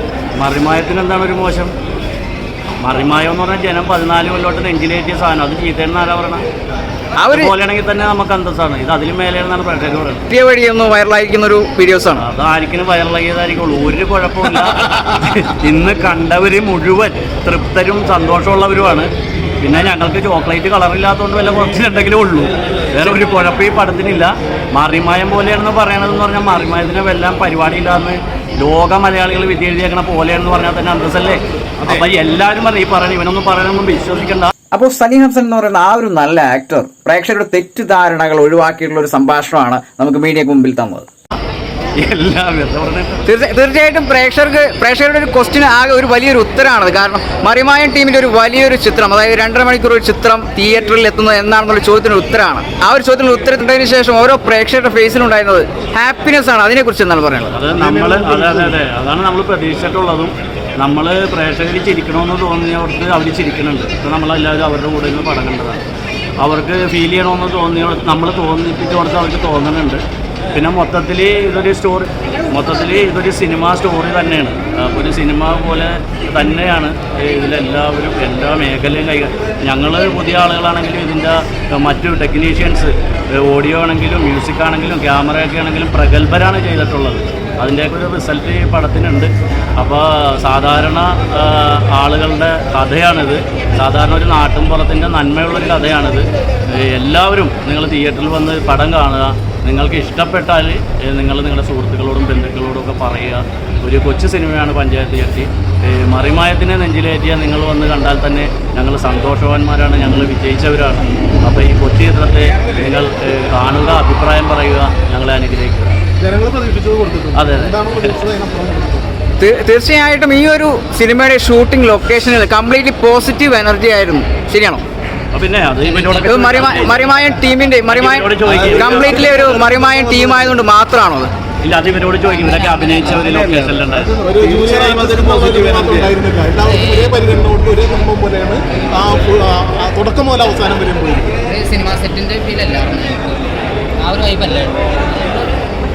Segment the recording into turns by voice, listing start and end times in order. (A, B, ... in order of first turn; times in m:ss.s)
0:00.4-0:01.7 A
0:02.8-0:06.4 A
0:07.2-0:07.5 B
0:07.3-0:10.2 A
0:10.3-0:12.2 B
0:12.2-0:19.1 A
0:19.6-0:34.5 A
0:34.7-0:41.1 B
0:42.0-0:43.2 A
0:43.2-0:57.6 B
0:57.5-1:05.8 A
0:57.7-0:58.7 C
1:06.4-1:10.0 A
1:10.5-1:55.9 A
1:56.2-1:59.1 C
1:57.3-1:58.2 A
1:59.4-2:04.8 B
2:05.3-2:07.3 A
2:06.0-2:11.3 B
2:07.9-2:09.4 A
2:08.5-2:10.6 C
2:11.6-2:14.1 A
2:12.7-2:13.7 D
2:14.1-2:21.4 C
2:14.3-2:15.8 D
2:16.7-2:17.2 D
2:18.7-2:19.0 D
2:21.4-2:25.6 D